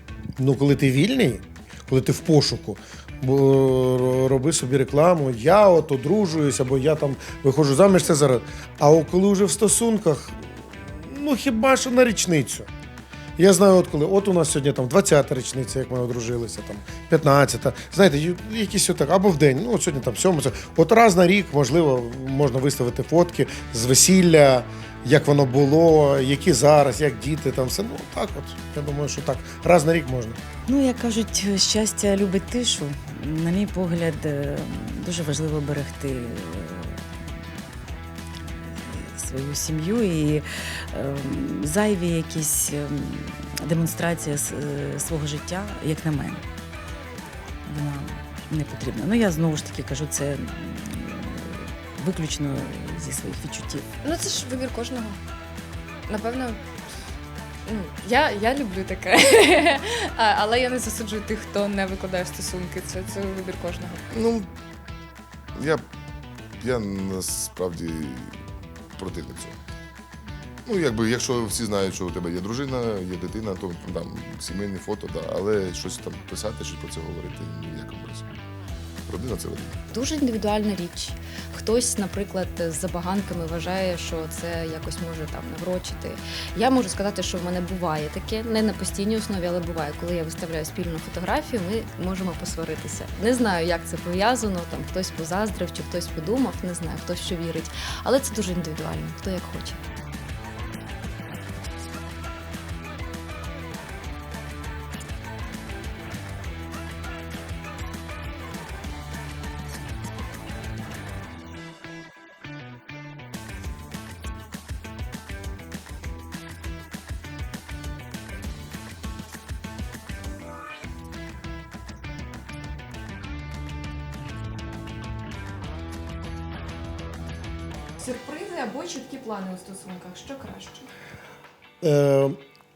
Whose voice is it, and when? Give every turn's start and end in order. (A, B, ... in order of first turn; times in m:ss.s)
0:00.4-0:12.7 A
0:13.4-0:30.4 A
0:30.7-0:37.0 B
0:38.5-0:46.4 B
0:47.7-0:53.9 B
0:54.0-0:55.2 C
0:56.1-0:56.6 C
0:57.7-1:04.1 C
1:04.1-1:04.5 D
1:05.6-1:05.9 D
1:06.6-1:08.4 D
1:09.0-1:09.6 D
1:10.7-1:18.3 D
1:19.1-1:19.8 D
1:19.9-1:39.8 E
2:08.0-2:10.9 F
2:11.8-2:12.4 A